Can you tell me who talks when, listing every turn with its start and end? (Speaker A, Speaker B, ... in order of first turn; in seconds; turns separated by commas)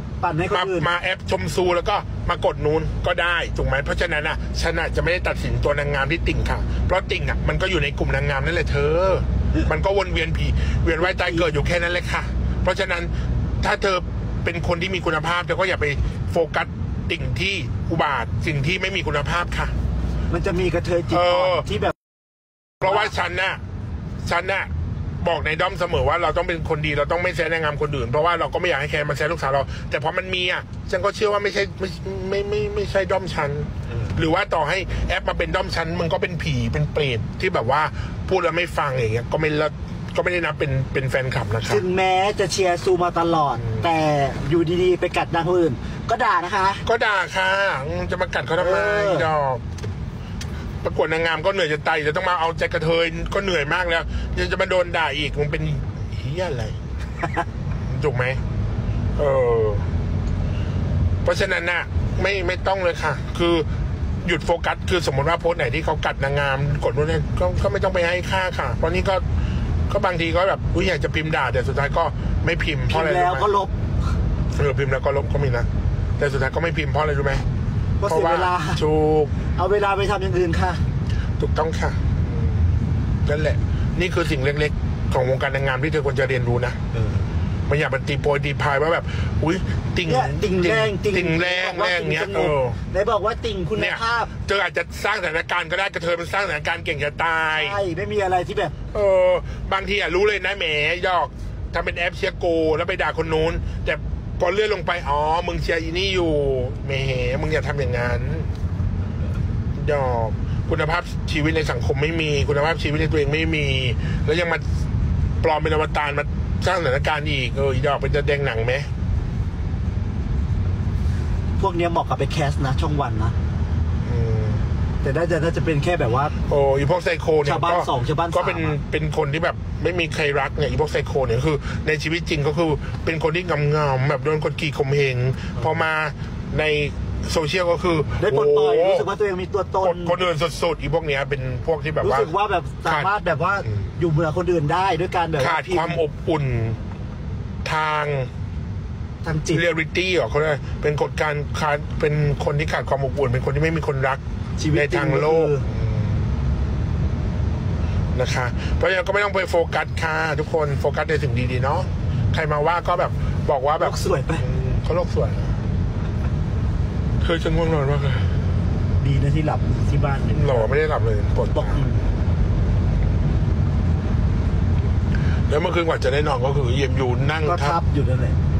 Speaker A: 0.2-0.9, Speaker B: 0.5-19.7, Speaker A: 11.0-11.4, Speaker A: 20.3-21.9, Speaker B: 21.1-21.6, Speaker B: 22.8-23.6, Speaker A: 22.8-23.1, Speaker B: 24.2-24.7, Speaker B: 25.2-41.8, Speaker A: 41.7-46.8, Speaker B: 46.8-49.6, Speaker A: 48.6-49.3, Speaker B: 50.8-56.8, Speaker B: 57.9-58.4, Speaker B: 59.1-59.9, Speaker B: 61.2-63.7, Speaker B: 64.2-69.2, Speaker B: 69.9-73.5, Speaker A: 72.9-73.8, Speaker B: 74.5-77.4, Speaker A: 78.0-78.8, Speaker B: 78.1-79.3, Speaker A: 79.5-80.8, Speaker B: 81.4-82.6, Speaker B: 83.2-86.8, Speaker A: 86.9-87.2, Speaker B: 87.7-92.8, Speaker A: 90.1-94.3, Speaker B: 93.8-97.8, Speaker A: 97.5-98.8, Speaker B: 98.9-108.5, Speaker B: 109.8-114.6, Speaker B: 115.4-118.9, Speaker A: 121.6-123.3, Speaker B: 124.0-124.6, Speaker A: 125.0-126.3, Speaker B: 126.5-139.1, Speaker A: 127.4-128.8, Speaker A: 138.2-140.2, Speaker B: 139.8-142.3, Speaker A: 142.0-146.0, Speaker B: 142.8-143.1, Speaker B: 145.4-146.8, Speaker B: 147.6-148.3, Speaker A: 149.2-149.6, Speaker B: 149.5-154.2, Speaker A: 154.6-155.7, Speaker B: 154.7-156.2, Speaker B: 158.1-165.6, Speaker A: 163.8-164.4, Speaker B: 167.2-168.3, Speaker A: 169.0-170.8, Speaker B: 170.3-171.8, Speaker A: 171.5-172.0, Speaker B: 175.5-177.8, Speaker A: 177.5-178.4